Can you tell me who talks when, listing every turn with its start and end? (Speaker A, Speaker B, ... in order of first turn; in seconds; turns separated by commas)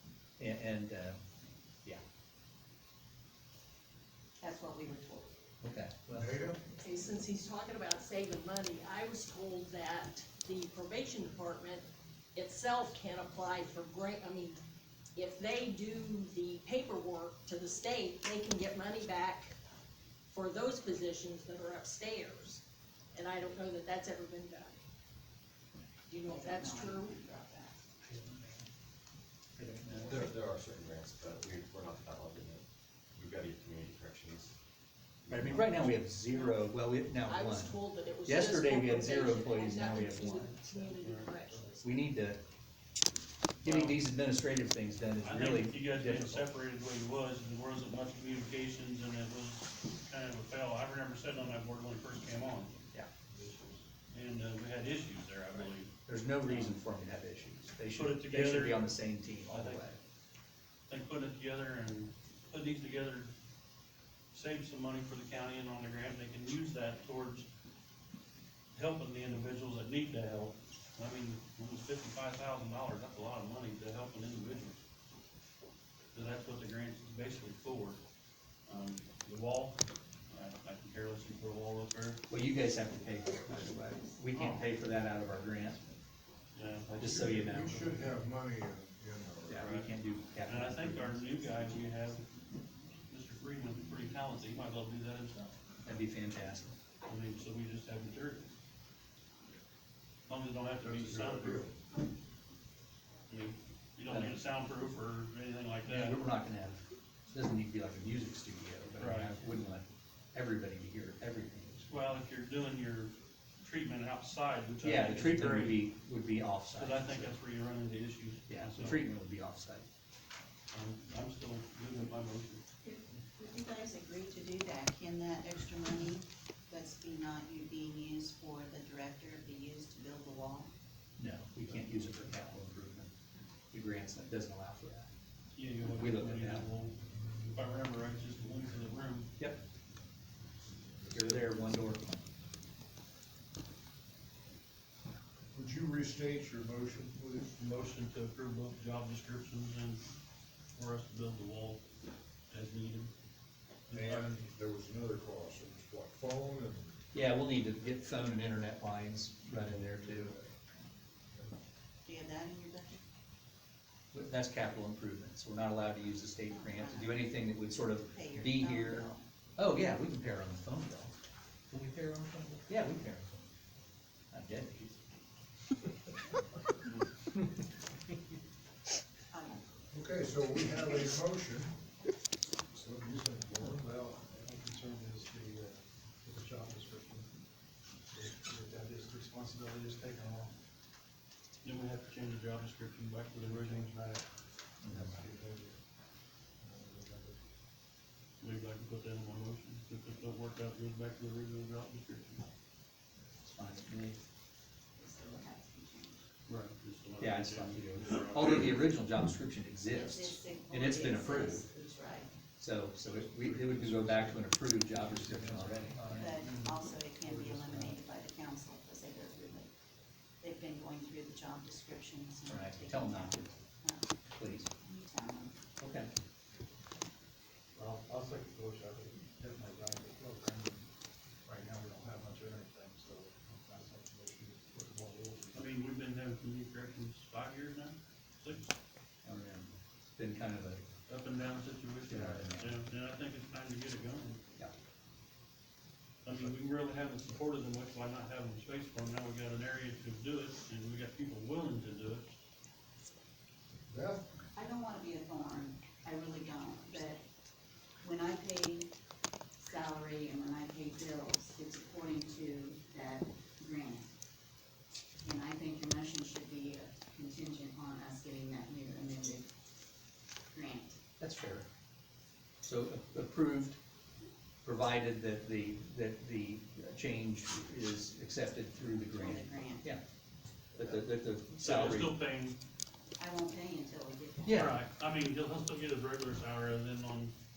Speaker A: 0.4-1.2, Speaker B: 4.4-5.4, Speaker A: 5.6-6.4, Speaker C: 6.1-6.6, Speaker D: 6.8-11.8, Speaker D: 12.3-14.6, Speaker D: 15.2-19.5, Speaker D: 20.3-24.8, Speaker D: 26.1-27.2, Speaker B: 26.3-27.8, Speaker A: 28.1-28.7, Speaker A: 29.6-30.3, Speaker E: 29.9-32.6, Speaker E: 33.1-34.5, Speaker E: 35.2-35.9, Speaker A: 35.3-40.9, Speaker D: 36.3-36.6, Speaker D: 37.3-41.8, Speaker F: 41.0-41.5, Speaker A: 41.8-42.4, Speaker F: 43.6-44.0, Speaker A: 43.6-46.5, Speaker F: 45.2-52.8, Speaker F: 54.1-55.9, Speaker A: 56.1-60.0, Speaker F: 56.5-56.8, Speaker F: 57.9-59.0, Speaker F: 59.5-59.9, Speaker F: 60.9-63.3, Speaker F: 64.3-67.5, Speaker F: 68.7-74.8, Speaker F: 76.1-78.0, Speaker F: 78.7-79.8, Speaker F: 80.3-82.2, Speaker A: 82.3-85.9, Speaker F: 84.3-84.7, Speaker F: 86.5-88.1, Speaker A: 87.0-87.8, Speaker C: 87.4-89.7, Speaker A: 89.5-91.2, Speaker F: 89.6-89.9, Speaker F: 90.5-92.3, Speaker F: 93.1-95.5, Speaker A: 95.8-96.8, Speaker F: 97.0-98.5, Speaker F: 100.3-101.7, Speaker C: 100.8-101.7, Speaker F: 103.3-106.2, Speaker A: 104.1-104.3, Speaker A: 105.9-112.1, Speaker F: 109.0-109.4, Speaker F: 111.9-115.8, Speaker A: 114.8-117.4, Speaker F: 116.8-119.0, Speaker A: 118.5-119.9, Speaker F: 120.7-122.6, Speaker B: 122.8-130.7, Speaker A: 131.2-133.1, Speaker A: 133.7-135.1, Speaker F: 135.5-137.0, Speaker A: 135.9-136.7, Speaker F: 137.5-139.3, Speaker A: 141.1-142.2, Speaker C: 145.5-147.6, Speaker F: 147.6-150.1, Speaker F: 150.7-151.8, Speaker F: 152.5-153.1, Speaker C: 153.9-157.0, Speaker F: 153.9-154.3, Speaker A: 157.1-160.4, Speaker B: 162.1-163.0, Speaker A: 164.1-171.1, Speaker B: 166.5-167.3, Speaker B: 168.1-169.2, Speaker A: 171.7-173.4, Speaker A: 174.3-175.0, Speaker B: 179.3-179.6, Speaker C: 179.9-181.7, Speaker C: 182.7-184.2, Speaker F: 191.6-193.9, Speaker A: 194.8-195.3, Speaker F: 198.4-202.5, Speaker A: 203.4-204.2, Speaker B: 205.0-206.2, Speaker F: 206.5-208.7, Speaker A: 207.2-211.7, Speaker B: 209.9-212.3, Speaker A: 212.6-216.4, Speaker B: 216.2-219.7, Speaker B: 220.4-224.1, Speaker A: 222.5-223.5, Speaker A: 224.4-224.7, Speaker B: 224.7-225.6, Speaker A: 225.8-226.1, Speaker G: 227.8-230.8, Speaker G: 231.5-235.5, Speaker F: 235.5-238.7, Speaker A: 239.2-240.8, Speaker F: 241.1-244.4, Speaker A: 242.1-242.8, Speaker F: 246.2-252.3, Speaker C: 253.9-254.2, Speaker B: 254.6-257.2, Speaker B: 258.0-258.9, Speaker B: 259.6-264.1, Speaker B: 265.2-269.5, Speaker B: 270.5-271.0, Speaker A: 271.2-271.7, Speaker A: 272.6-273.8, Speaker A: 274.6-280.0, Speaker B: 279.1-279.9, Speaker A: 280.8-282.1, Speaker F: 281.6-282.6, Speaker B: 283.2-284.8, Speaker A: 284.4-284.8, Speaker F: 284.5-287.4